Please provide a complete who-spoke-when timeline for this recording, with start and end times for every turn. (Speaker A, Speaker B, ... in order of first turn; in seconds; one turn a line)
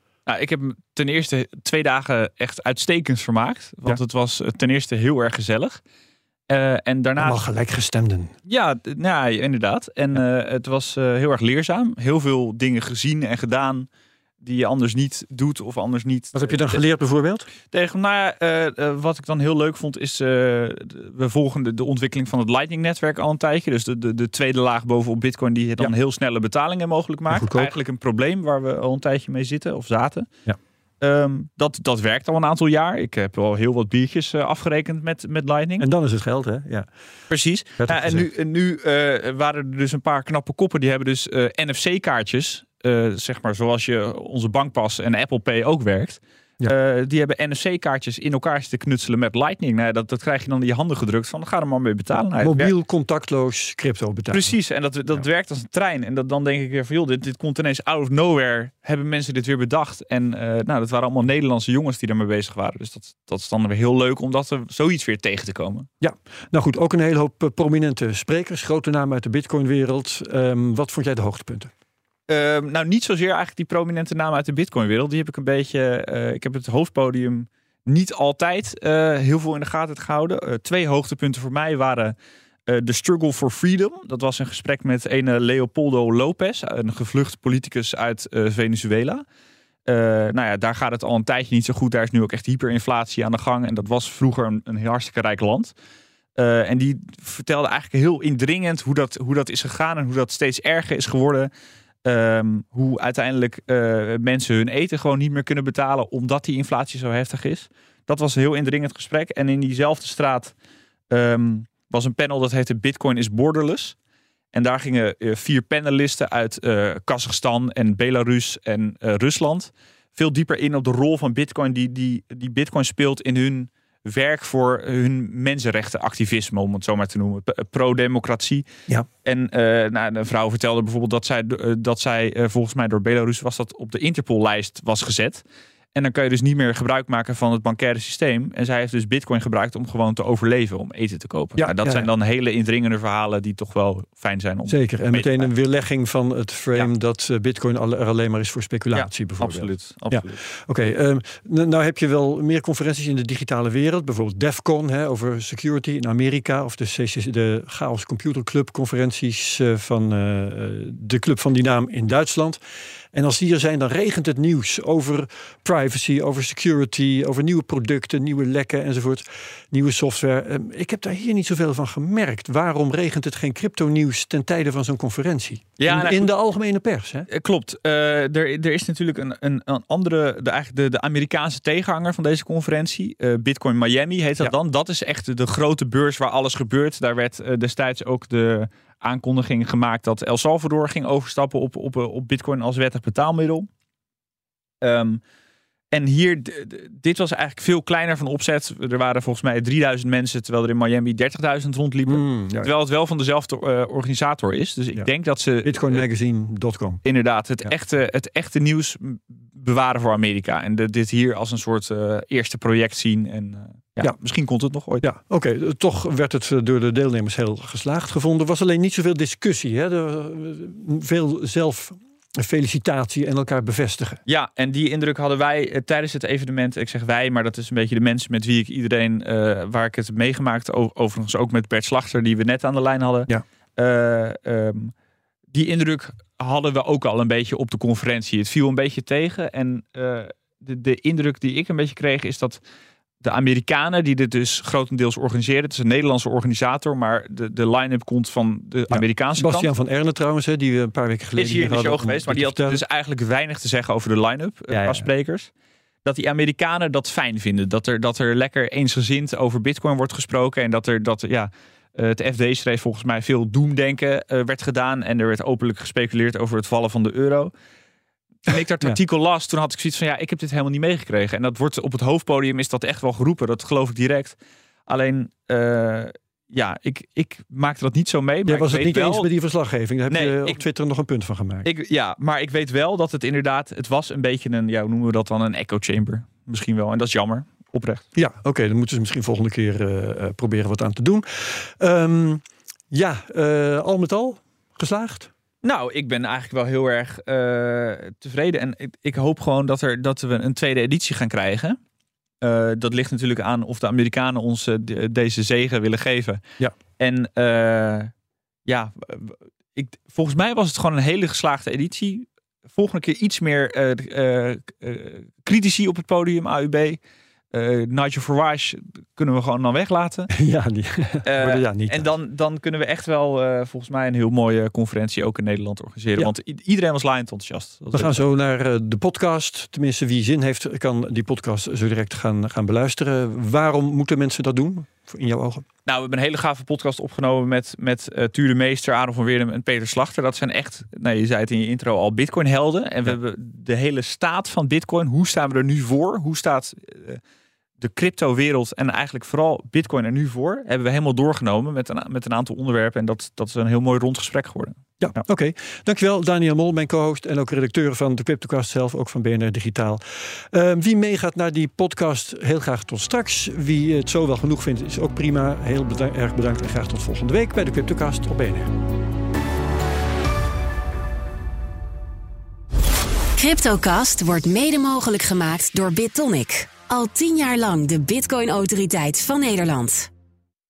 Speaker A: 0.3-5.8
Speaker A: 6.5-7.4
Speaker B: 7.2-8.3
Speaker A: 8.5-13.9
Speaker A: 14.4-16.7
Speaker B: 16.3-17.5
Speaker A: 17.7-30.3
Speaker B: 27.3-27.8
Speaker A: 31.0-35.9
Speaker B: 35.8-36.9
Speaker A: 37.3-52.7
Speaker B: 37.8-38.3
Speaker B: 52.4-54.5
Speaker A: 54.3-65.9
Speaker B: 66.0-71.7
Speaker A: 72.3-82.1
Speaker A: 82.7-89.2
Speaker A: 89.8-95.7
Speaker A: 96.3-101.5
Speaker A: 102.0-110.5
Speaker A: 111.1-114.0
Speaker A: 114.5-128.7
Speaker A: 129.2-135.4
Speaker A: 135.9-145.5
Speaker B: 141.6-142.1
Speaker B: 144.7-162.6
Speaker A: 148.9-150.4
Speaker B: 163.1-177.3
Speaker A: 175.8-176.3
Speaker A: 177.3-193.7
Speaker A: 194.8-195.2
Speaker A: 195.9-206.0
Speaker B: 202.1-202.7
Speaker B: 205.6-207.0
Speaker A: 207.0-215.1
Speaker B: 215.0-224.2
Speaker A: 224.3-234.9
Speaker A: 235.5-242.6
Speaker A: 243.2-249.7
Speaker B: 248.9-252.8
Speaker A: 251.3-255.5
Speaker B: 254.7-255.1
Speaker A: 256.0-267.5
Speaker A: 268.4-274.4
Speaker A: 274.9-279.3
Speaker B: 278.5-281.7
Speaker A: 280.1-280.6
Speaker A: 281.6-288.0
Speaker B: 288.1-295.3
Speaker A: 295.6-301.8
Speaker A: 302.4-306.4
Speaker A: 307.0-308.1
Speaker A: 308.7-317.0
Speaker A: 317.5-320.3
Speaker B: 320.3-322.1
Speaker A: 321.2-328.2
Speaker B: 327.9-335.6
Speaker A: 335.9-347.2
Speaker A: 347.8-354.8
Speaker B: 355.0-368.7
Speaker C: 373.4-380.1